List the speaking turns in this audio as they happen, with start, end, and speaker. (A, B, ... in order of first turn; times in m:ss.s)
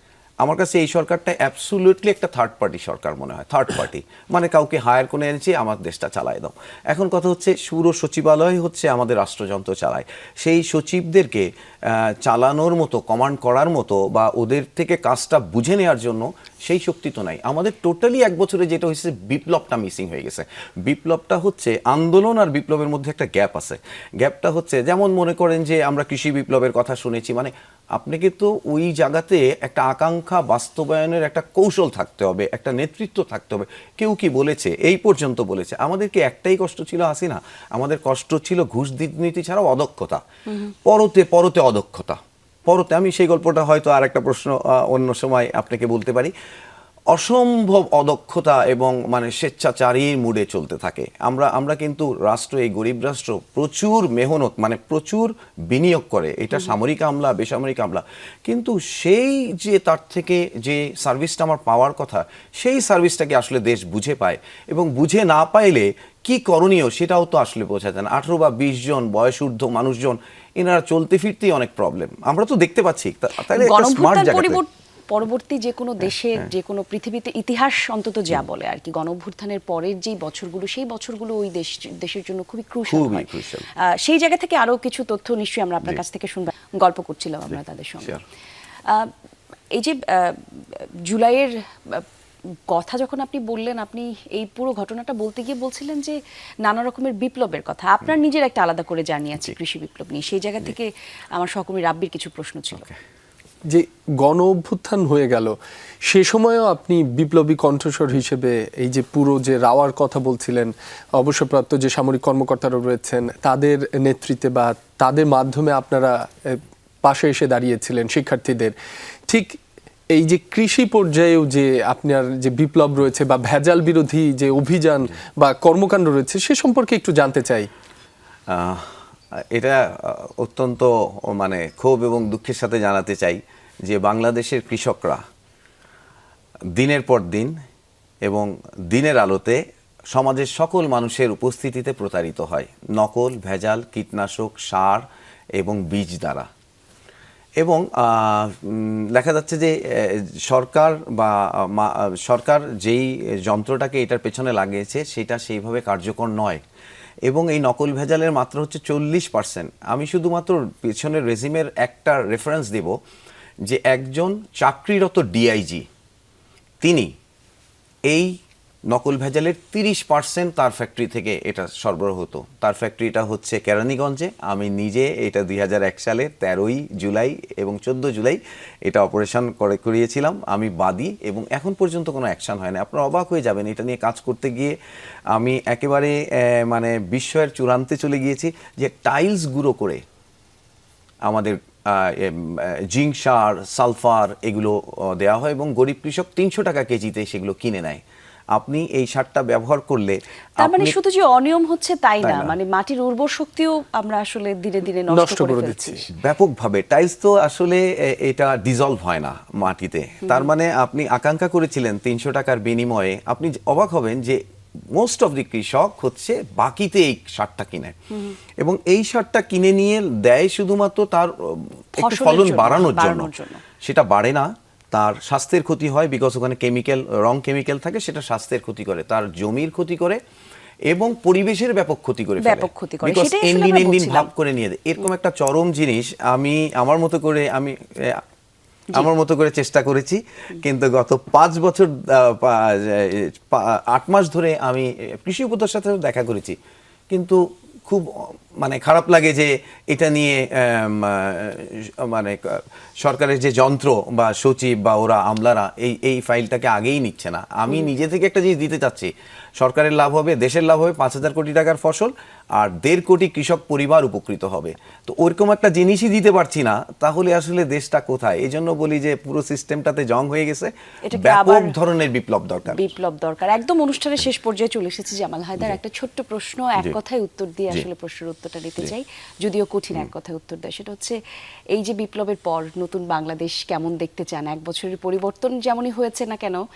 0:00.4-0:40.2 A
0:40.8-0:46.3 A
0:47.1-1:14.6 A
1:13.5-1:28.2 B
1:22.9-1:23.7 A
1:28.9-1:29.1 B
1:29.7-1:32.1 B
1:32.7-1:42.9 B
1:43.7-1:45.5 C
1:46.1-1:58.8 C
1:59.3-1:59.6 C
2:00.1-2:07.7 C
2:08.5-2:08.9 A
2:09.5-2:15.2 A
2:16.8-2:17.6 A
2:18.2-2:25.0 A
2:25.6-2:26.5 A
2:27.6-2:36.6 A
2:37.3-2:43.0 A
2:43.7-2:45.9 A
2:46.8-2:47.1 A
2:48.9-3:04.8 A
3:05.3-3:10.0 A
3:11.3-3:18.0 A
3:18.5-3:21.0 A
3:20.6-3:26.1 B
3:22.2-3:22.6 A
3:25.1-3:26.0 C
3:26.1-3:34.4 A
3:34.9-3:38.0 A
3:38.6-3:43.3 A
3:42.0-3:43.6 B
3:43.8-3:50.2 A
3:50.9-3:58.2 A
3:52.4-3:54.3 B
3:58.9-4:06.6 A
4:07.1-4:32.8 A
4:31.1-4:31.8 B
4:32.7-4:41.2 B
4:41.7-4:46.6 B